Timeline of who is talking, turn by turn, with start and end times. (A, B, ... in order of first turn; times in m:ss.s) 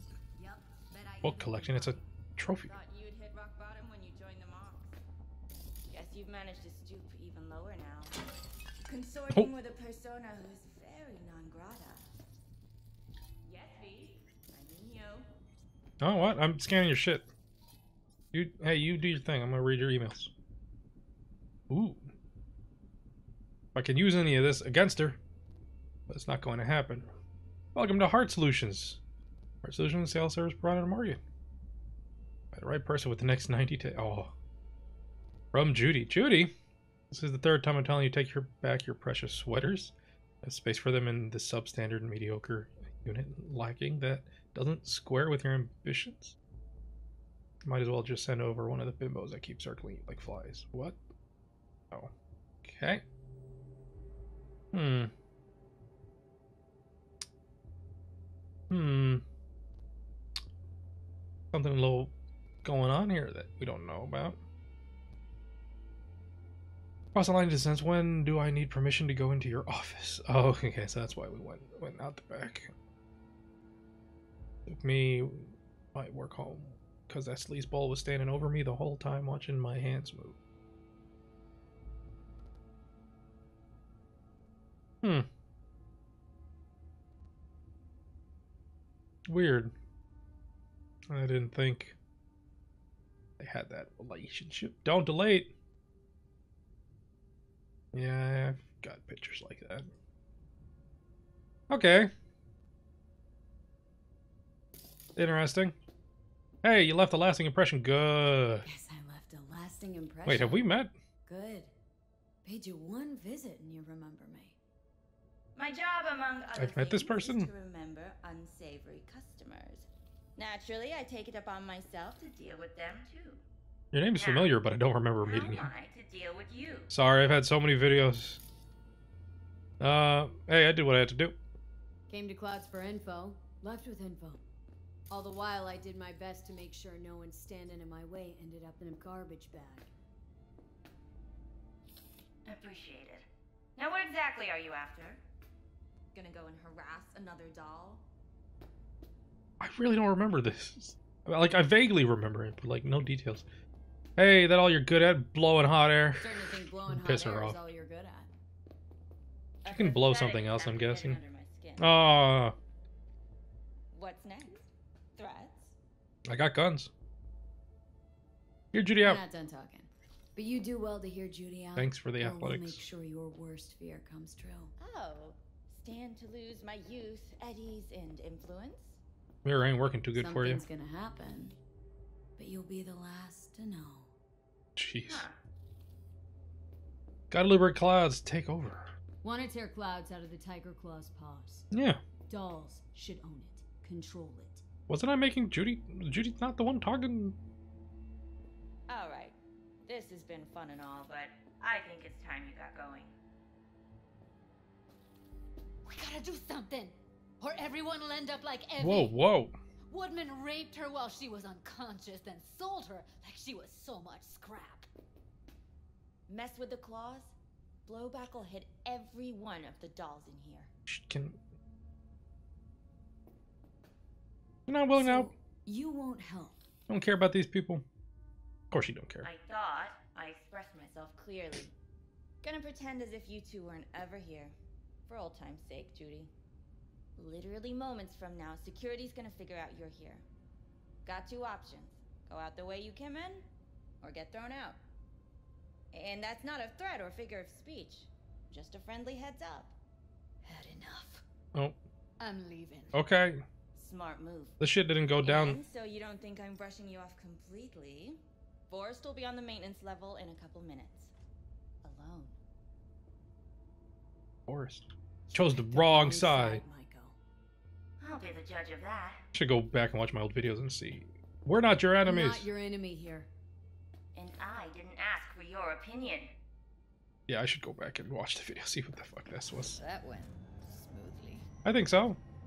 0:00.4-0:02.0 A
0:01.2-0:02.7 B
0:02.7-0:05.0 C
0:05.9-0:08.2 C
0:08.8-0:12.1 C
0:13.4-0:15.3 C
0:16.0-0:17.3 B
0:18.3-0:20.3 B
0:21.7-0:22.1 B
0:23.8-0:25.2 B
0:26.1-0:27.1 B
0:27.8-0:29.0 B
0:29.6-0:31.2 B
0:32.5-0:34.3 B
0:35.5-0:36.5 B
0:37.1-0:46.4 B
0:47.6-0:51.0 B
0:52.6-0:53.0 B
0:54.7-0:55.1 B
0:58.7-0:59.2 B
1:01.5-1:02.1 B
1:02.6-1:04.4 B
1:07.2-1:12.7 B
1:14.7-1:20.4 B
1:25.0-1:25.3 B
1:29.3-1:29.7 B
1:31.1-1:32.0 B
1:33.4-1:35.5 B
1:37.9-1:39.9 B
1:41.7-1:42.1 B
1:45.2-1:45.8 B
1:46.6-1:48.7 B
1:48.6-1:50.7 D
1:50.3-1:50.9 B
1:51.2-1:51.7 D
1:52.4-1:54.6 D
1:55.6-2:03.4 C
1:56.6-1:57.5 B
2:03.9-2:05.7 B
2:04.2-2:04.6 C
2:05.2-2:06.9 C
2:06.9-2:08.4 B
2:09.8-2:11.4 B
2:12.1-2:14.4 D
2:15.1-2:19.9 D
2:22.5-2:23.2 C
2:23.8-2:25.2 C
2:26.1-2:28.0 C
2:29.6-2:33.4 B
2:34.2-2:37.6 B
2:36.2-2:38.3 D
2:39.6-2:42.0 C
2:39.7-2:41.2 B
2:41.8-2:42.6 B
2:43.9-2:44.6 C
2:45.2-2:45.7 C
2:46.3-2:46.9 B
2:48.7-2:49.2 B
2:49.0-2:54.7 D
2:51.8-2:52.8 B
2:54.8-2:59.0 C
2:59.4-3:00.6 B
3:00.2-3:01.6 D
3:02.4-3:04.1 D
3:04.8-3:05.3 B
3:05.1-3:05.4 C
3:07.3-3:08.9 B
3:09.2-3:11.7 D
3:11.7-3:12.0 B
3:12.3-3:14.6 D
3:14.9-3:17.4 B
3:18.9-3:23.1 C
3:25.8-3:29.1 A
3:28.8-3:29.6 B
3:29.9-3:34.9 A
3:36.3-3:37.3 C
3:37.9-3:40.7 C
3:40.9-3:41.4 B
3:44.7-3:45.3 B
3:44.9-3:46.6 D
3:46.9-3:47.8 B
3:48.7-3:49.3 B
3:49.2-3:51.7 C
3:52.4-3:54.6 C
3:55.1-3:56.3 C
3:57.2-4:00.2 C
4:01.0-4:03.5 C
4:04.0-4:04.8 C
4:05.9-4:09.8 C
4:10.4-4:11.2 A
4:12.2-4:12.9 A
4:12.9-4:13.4 B
4:13.8-4:14.6 C
4:14.6-4:15.6 B
4:15.2-4:21.1 C
4:21.9-4:22.3 D
4:21.9-4:22.3 A
4:24.5-4:26.6 B
4:25.3-4:27.2 D
4:28.0-4:29.2 C
4:29.3-4:32.5 B
4:32.0-4:33.3 D
4:34.1-4:36.3 C
4:37.3-4:39.8 B
4:39.6-4:41.5 A
4:41.6-4:42.2 B